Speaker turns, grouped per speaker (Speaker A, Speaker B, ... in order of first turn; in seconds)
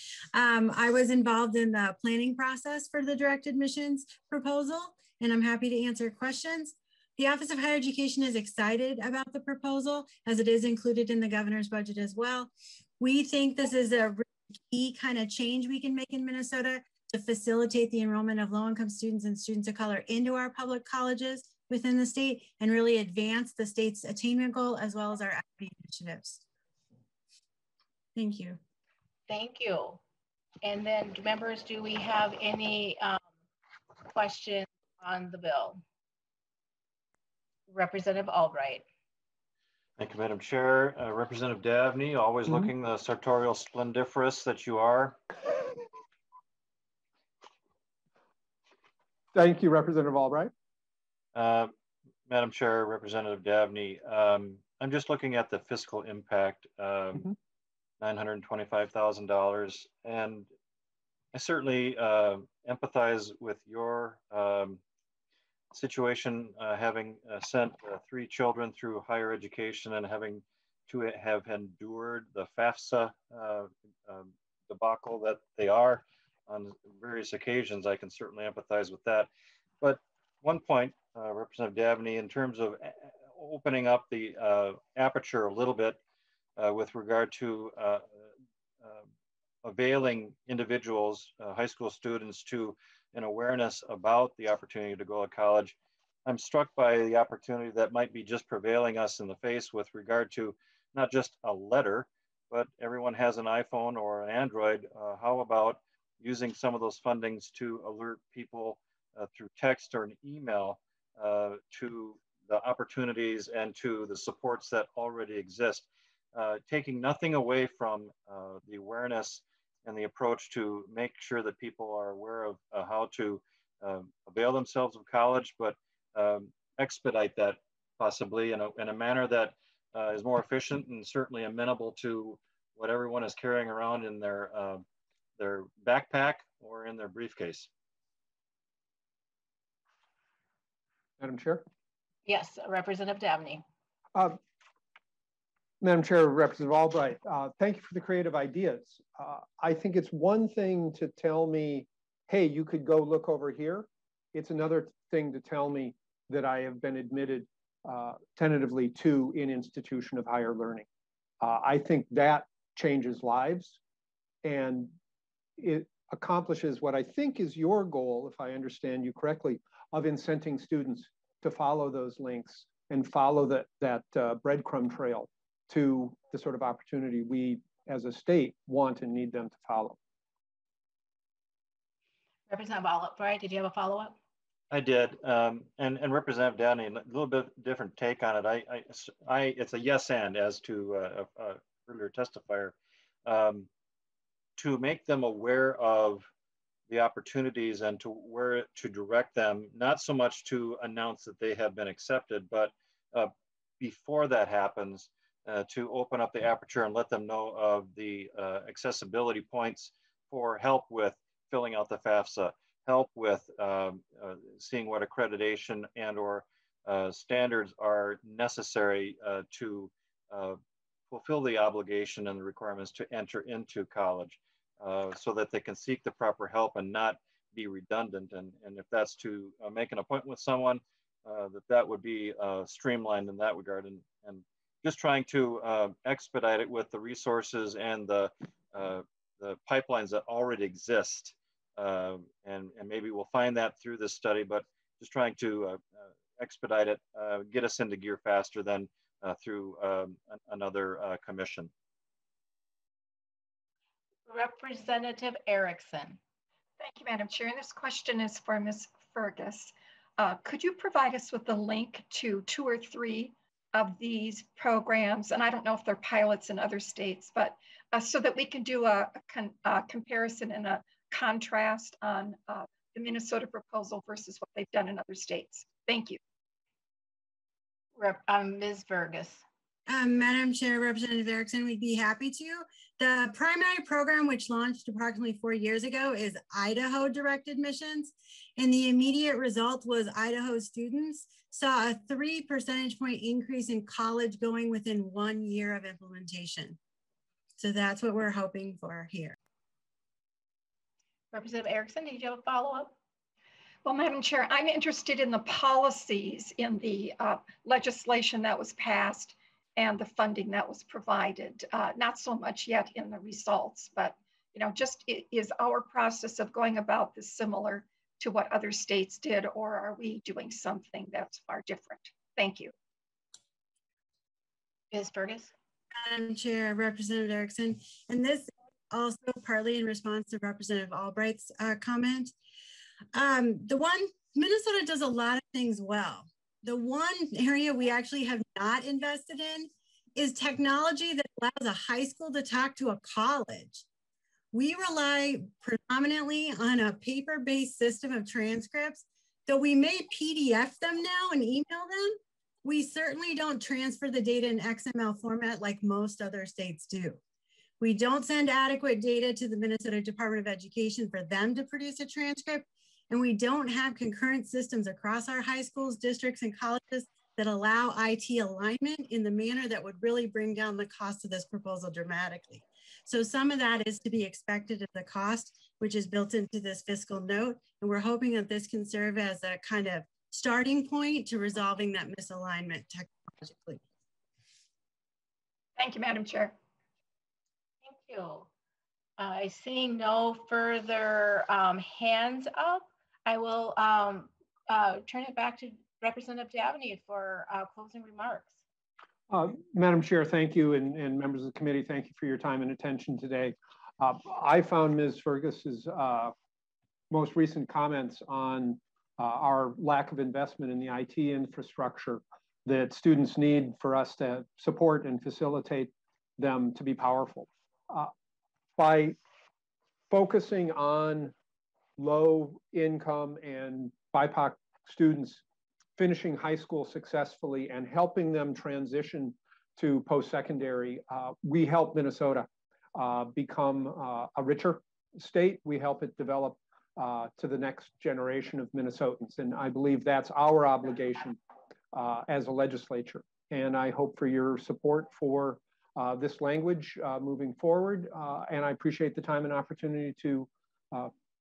Speaker A: 0.3-26.4, 28.1-28.6, 279.9-296.8, 297.6-299.4, 326.0-332.3, 333.1-343.8, 344.5-357.2, 357.8-383.8
Speaker B: 29.3-30.0, 30.6-33.2, 34.1-35.8, 37.7-38.8, 142.2-143.6, 182.5-184.2, 254.3-256.2, 277.9-279.4, 301.3-302.9, 324.9-325.5, 387.8-388.5, 389.2-398.6
Speaker C: 40.0-45.2, 51.3-51.7, 52.3-57.3, 58.0-60.5, 61.3-64.8, 65.7-79.3, 79.8-86.0, 86.6-88.0, 88.8-89.1, 89.6-134.8, 135.4-137.7, 184.7-192.7, 193.2-193.7, 194.6-196.3, 196.9-220.6, 221.1-251.7
Speaker D: 42.5-42.7, 49.3-50.5, 141.2-141.6, 145.8-160.8, 161.4-163.8, 164.4-164.9, 165.6-180.0, 399.3-406.3, 407.1-418.1, 418.8-419.2, 420.1-421.3, 422.0-425.4, 426.0-441.4, 441.9-451.1
Speaker E: 256.8-276.2, 303.8-322.7, 385.8-386.5